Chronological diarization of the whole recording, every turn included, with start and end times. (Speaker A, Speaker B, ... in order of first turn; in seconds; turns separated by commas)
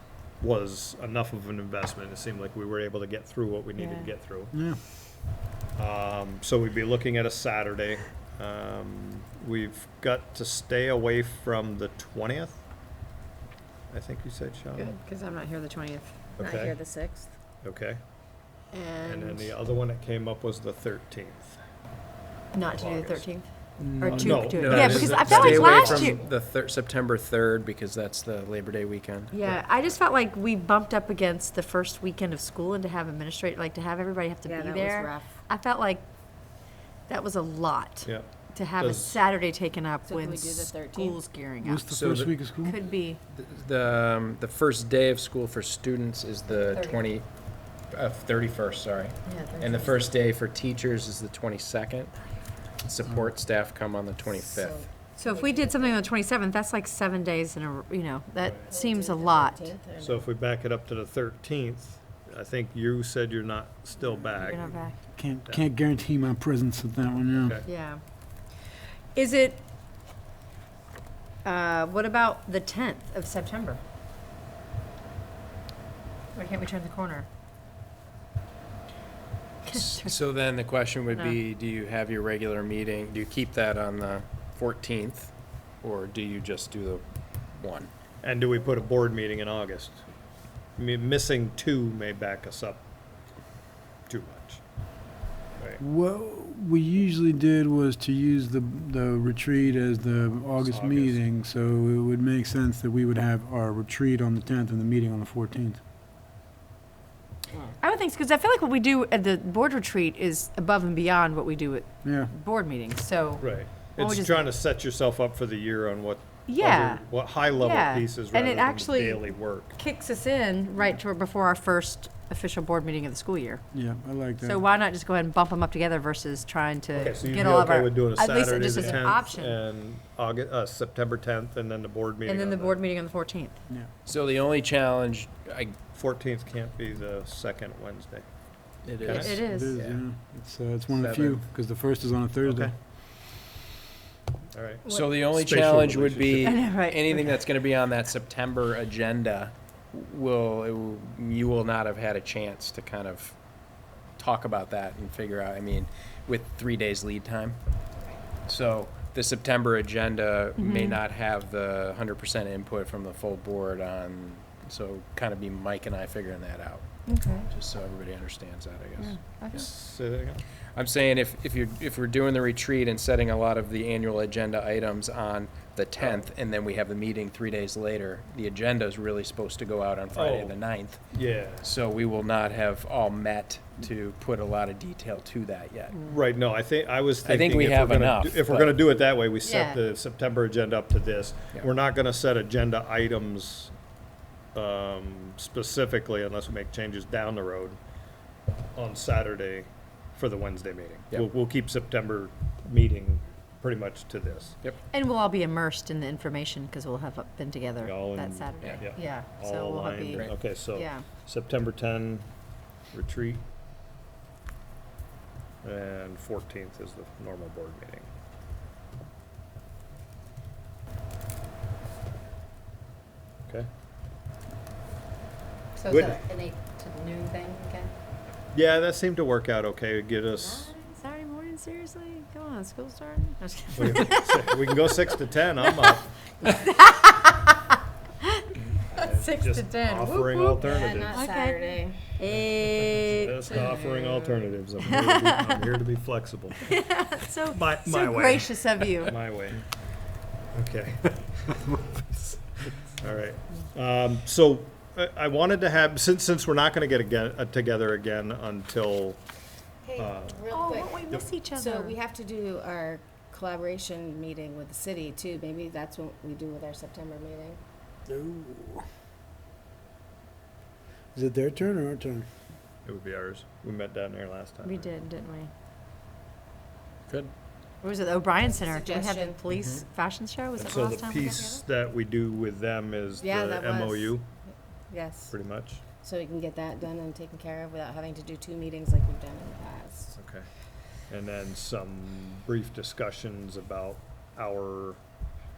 Speaker A: 0.4-4.5, Speaker B: 3.8-4.1, Speaker C: 4.5-4.8, Speaker A: 5.8-12.6, Speaker A: 13.9-15.0, Speaker B: 14.8-16.3, Speaker A: 16.4-16.8, Speaker D: 16.4-17.3, Speaker A: 17.6-18.0, Speaker B: 18.7-19.6, Speaker A: 19.0-21.6, Speaker B: 22.5-26.2, Speaker A: 22.7-23.3, Speaker E: 23.8-29.3, Speaker A: 24.0-26.1, Speaker B: 29.3-36.0, Speaker D: 34.5-35.5, Speaker B: 37.1-41.9, Speaker A: 38.0-39.2, Speaker D: 40.0-41.2, Speaker C: 41.6-42.8, Speaker E: 41.9-42.3, Speaker B: 42.6-43.2, Speaker E: 43.3-47.3, Speaker B: 46.6-47.0, Speaker E: 47.9-52.2, Speaker B: 49.3-50.0, Speaker E: 52.8-54.9, Speaker D: 54.4-56.0, Speaker B: 55.2-59.7, Speaker D: 58.6-60.3, Speaker A: 60.0-64.8, Speaker B: 64.4-65.0, Speaker C: 65.1-67.6, Speaker A: 65.4-65.7, Speaker A: 67.4-67.7, Speaker B: 67.7-68.0, Speaker B: 69.2-69.7, Speaker B: 71.5-73.8, Speaker B: 76.3-77.3, Speaker B: 79.7-80.2, Speaker E: 79.7-87.9, Speaker A: 88.2-90.0, Speaker A: 90.8-92.8, Speaker A: 94.1-94.6, Speaker C: 95.8-105.8, Speaker A: 100.6-101.2, Speaker B: 107.8-114.5, Speaker C: 112.0-112.3, Speaker A: 113.4-119.8, Speaker B: 116.5-123.6, Speaker C: 123.7-124.6, Speaker B: 124.4-129.6, Speaker A: 127.0-132.8, Speaker B: 132.3-133.6, Speaker E: 134.1-135.8, Speaker A: 135.9-138.3, Speaker E: 138.8-140.0, Speaker A: 139.0-139.4, Speaker B: 139.1-139.8, Speaker C: 139.4-142.7, Speaker E: 140.9-141.4, Speaker A: 142.4-142.7, Speaker A: 144.5-146.6, Speaker B: 144.9-145.1, Speaker E: 144.9-153.4, Speaker B: 146.4-147.2, Speaker E: 154.2-157.6, Speaker E: 158.4-169.2, Speaker B: 160.6-161.0, Speaker B: 167.1-167.5, Speaker B: 169.0-169.7, Speaker A: 169.5-170.4, Speaker E: 170.8-186.0, Speaker A: 180.1-180.6, Speaker A: 181.1-181.7, Speaker A: 186.1-193.7, Speaker E: 187.2-188.8, Speaker B: 189.4-189.8, Speaker A: 194.6-197.8, Speaker A: 198.8-204.6, Speaker B: 204.9-211.1, Speaker A: 207.8-212.3, Speaker E: 208.6-208.9, Speaker A: 212.9-213.4, Speaker A: 215.6-218.1, Speaker B: 225.8-227.9, Speaker A: 225.9-226.2, Speaker A: 228.5-230.7, Speaker B: 230.4-234.6, Speaker A: 233.8-236.1, Speaker B: 235.7-241.6, Speaker A: 238.7-241.2, Speaker D: 240.5-242.2, Speaker B: 242.2-243.6, Speaker A: 242.3-246.8, Speaker D: 243.5-244.3, Speaker B: 244.8-245.7, Speaker B: 246.6-249.1, Speaker A: 247.5-249.6, Speaker A: 250.5-251.2, Speaker A: 253.0-259.2, Speaker D: 259.9-267.6, Speaker A: 260.0-260.5, Speaker B: 260.5-262.0, Speaker C: 268.1-268.9, Speaker C: 271.1-272.3, Speaker A: 272.9-274.9, Speaker B: 274.6-275.5, Speaker B: 277.8-281.6, Speaker D: 278.4-279.4, Speaker E: 279.5-279.9, Speaker A: 280.6-284.3, Speaker B: 283.2-284.2, Speaker B: 284.9-285.3, Speaker A: 285.3-285.8, Speaker D: 286.0-290.1, Speaker A: 290.2-290.5, Speaker A: 291.1-295.0